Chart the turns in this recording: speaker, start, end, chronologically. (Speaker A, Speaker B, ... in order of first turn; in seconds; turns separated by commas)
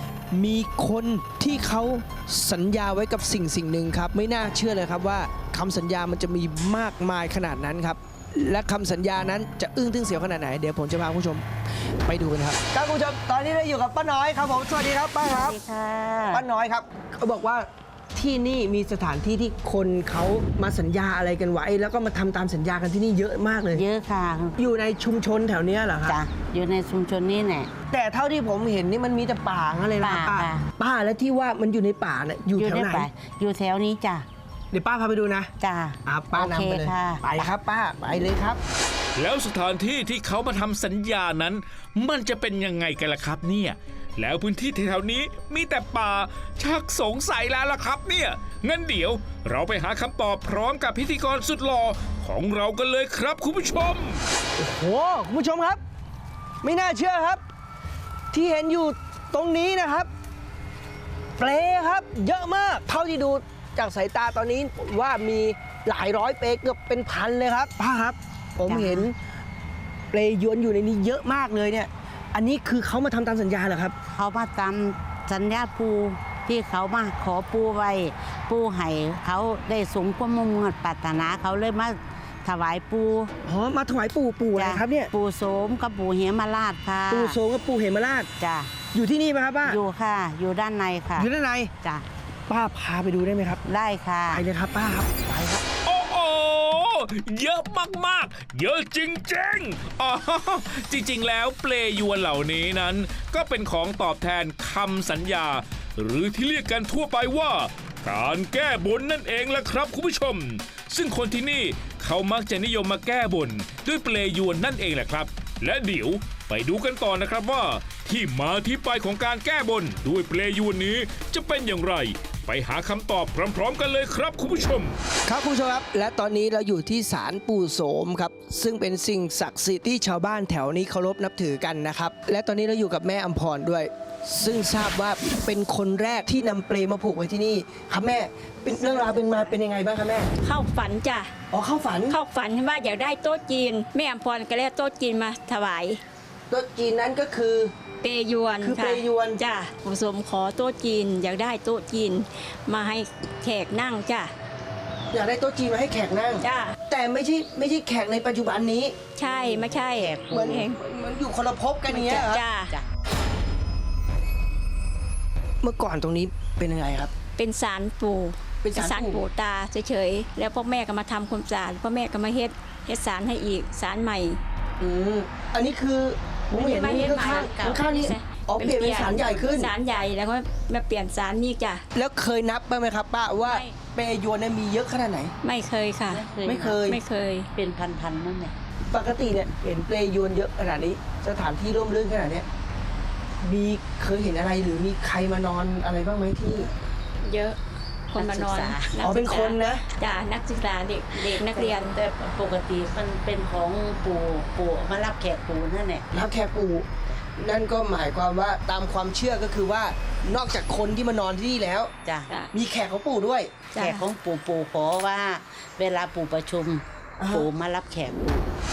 Speaker A: 0.3-11.4, Speaker A: 12.0-15.6, Speaker B: 15.2-16.4, Speaker A: 16.3-23.8, Speaker B: 23.7-24.6, Speaker A: 24.6-26.2, Speaker B: 26.0-27.7, Speaker A: 27.9-33.1, Speaker B: 30.0-30.6, Speaker B: 32.5-34.3, Speaker A: 34.7-35.5, Speaker B: 35.6-37.2, Speaker A: 36.0-38.6, Speaker C: 39.1-54.2, Speaker A: 54.6-55.8, Speaker A: 56.6-57.4, Speaker A: 58.3-60.1, Speaker A: 61.4-69.1, Speaker B: 68.7-69.1, Speaker A: 70.1-74.0, Speaker B: 74.1-83.3, Speaker A: 83.4-85.1, Speaker B: 84.5-87.4, Speaker A: 87.1-88.3, Speaker B: 88.4-88.7, Speaker A: 88.9-89.8, Speaker B: 89.7-91.3, Speaker A: 91.2-91.7, Speaker A: 92.5-93.6, Speaker B: 93.6-94.4, Speaker A: 94.3-95.6, Speaker C: 95.8-125.0, Speaker A: 125.2-140.3, Speaker D: 138.8-139.5, Speaker D: 140.4-141.3, Speaker A: 141.5-142.2, Speaker D: 142.1-146.0, Speaker A: 146.5-147.7, Speaker D: 148.0-154.3, Speaker A: 148.6-149.4, Speaker A: 155.1-159.0, Speaker D: 156.4-156.8, Speaker D: 159.2-160.8, Speaker B: 159.2-160.6, Speaker A: 160.3-162.4, Speaker B: 161.9-162.9, Speaker D: 161.9-162.7, Speaker A: 165.6-167.1, Speaker D: 167.3-174.4, Speaker A: 168.6-169.2, Speaker A: 174.8-179.7, Speaker D: 176.5-181.8, Speaker B: 176.8-178.0, Speaker A: 181.9-185.3, Speaker D: 183.4-183.7, Speaker D: 185.4-186.3, Speaker B: 186.1-186.9, Speaker A: 186.4-187.0, Speaker D: 186.9-187.5, Speaker B: 187.5-188.5, Speaker A: 188.9-192.4, Speaker A: 193.4-196.7, Speaker D: 197.2-197.6, Speaker B: 198.1-199.0, Speaker D: 198.1-202.0, Speaker A: 199.0-199.8, Speaker B: 201.1-206.1, Speaker A: 206.1-211.9, Speaker B: 212.0-212.3, Speaker A: 212.5-213.5, Speaker D: 213.7-214.1, Speaker B: 213.8-218.5, Speaker A: 217.2-217.5